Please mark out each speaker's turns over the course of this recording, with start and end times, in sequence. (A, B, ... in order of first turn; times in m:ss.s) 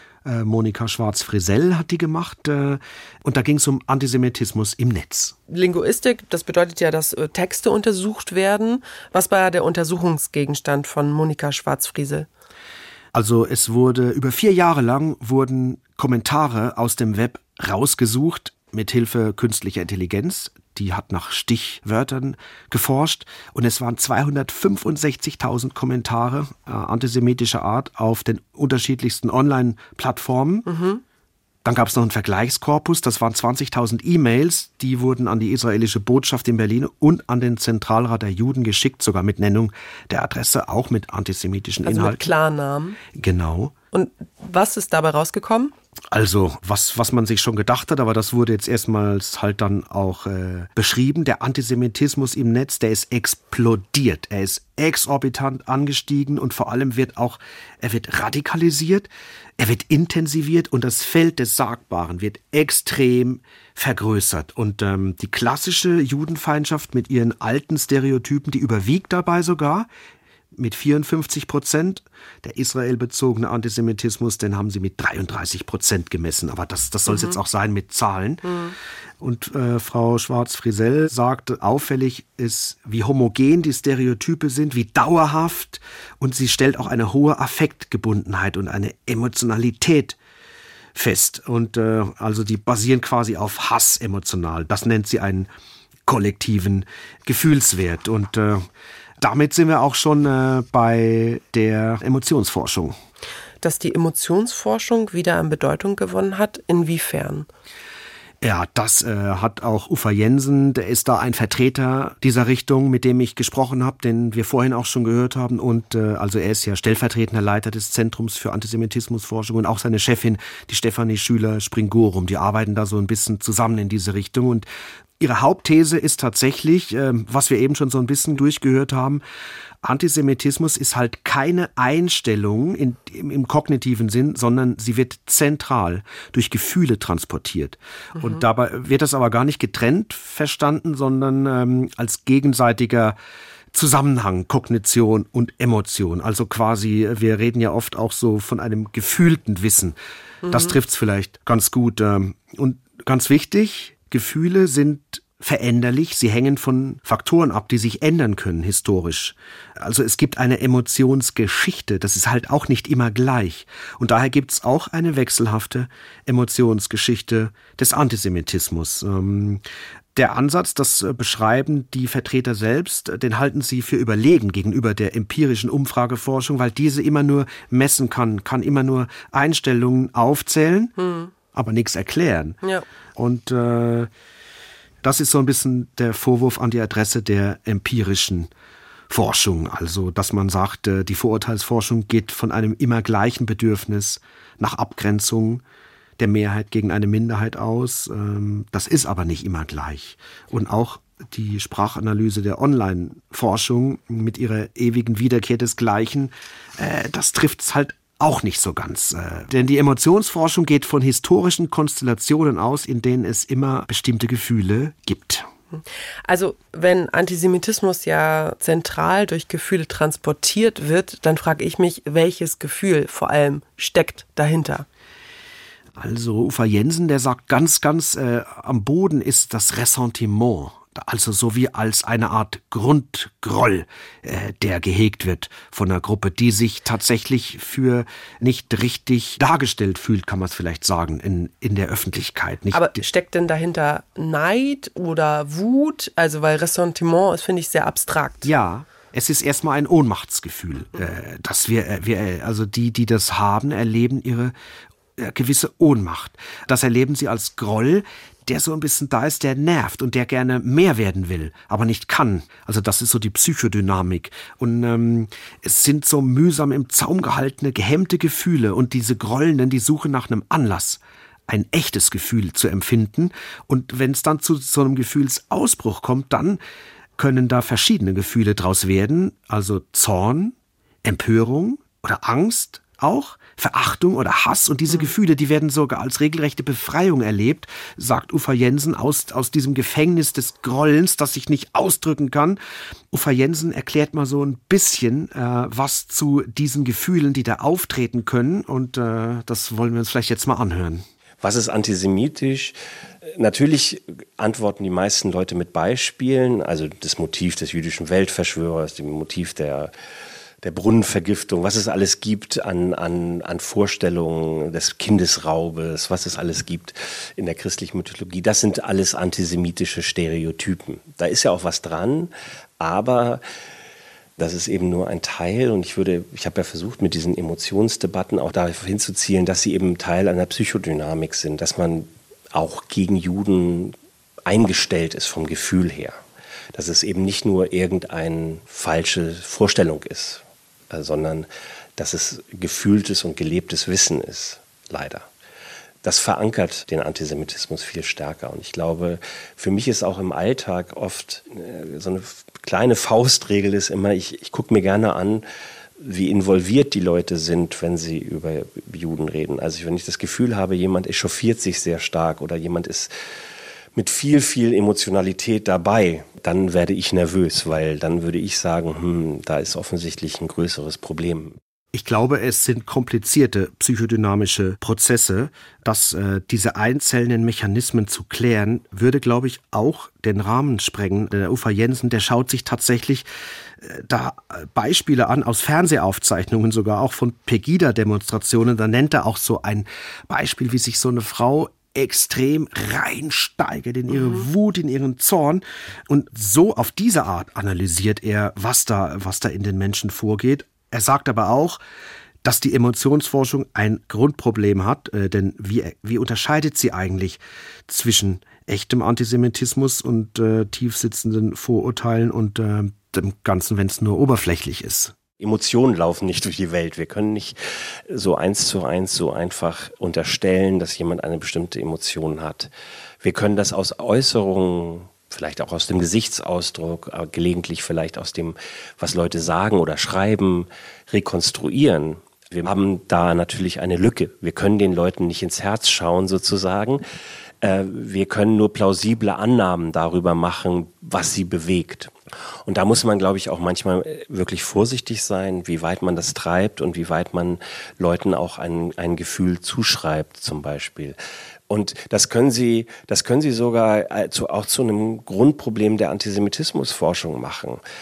0:00.2-0:05.3 A
0:05.5-0:12.3 B
0:13.1-0:30.7 A
0:30.6-0:31.0 B
0:31.6-0:42.2 A
0:41.8-0:43.0 B
0:43.1-0:43.7 A
0:43.9-0:45.7 B
0:46.1-1:09.9 A
1:10.5-1:18.6 A
1:17.1-1:17.4 B
1:18.4-1:18.7 B
1:19.2-1:30.2 A
1:30.9-1:35.5 A
1:36.0-1:38.7 A
1:39.2-1:43.0 A
1:43.6-1:47.5 B
1:48.4-2:04.6 A
2:05.2-2:09.2 A
2:09.8-2:23.2 A
2:18.2-2:18.4 B
2:23.7-2:30.0 A
2:30.4-2:30.7 B
2:30.5-2:49.6 A
2:50.1-3:00.9 A
3:01.0-3:01.3 B
3:01.5-3:02.6 A
3:03.2-3:04.1 A
3:05.0-3:08.5 A
3:09.1-3:15.6 A
3:16.2-3:35.5 A
3:35.7-3:44.8 B
3:46.0-4:03.0 A
4:02.7-4:08.5 B
4:08.4-4:14.5 A
4:15.2-4:36.6 A
4:37.2-4:52.6 A
4:53.1-5:01.0 A
5:01.4-5:09.9 C
5:10.6-5:23.4 C
5:24.4-5:33.9 C
5:34.4-5:36.2 C
5:36.7-5:45.3 C
5:46.0-5:55.4 C
5:56.0-6:03.1 C
6:04.0-6:11.6 C
6:11.9-6:23.2 A
6:23.8-6:41.8 A
6:34.1-6:34.5 B
6:42.4-6:55.1 A
6:55.4-6:57.6 C
6:58.1-7:02.7 C
7:03.2-7:17.0 C
7:17.6-7:22.1 C
7:22.6-7:31.2 C
7:31.7-7:37.8 C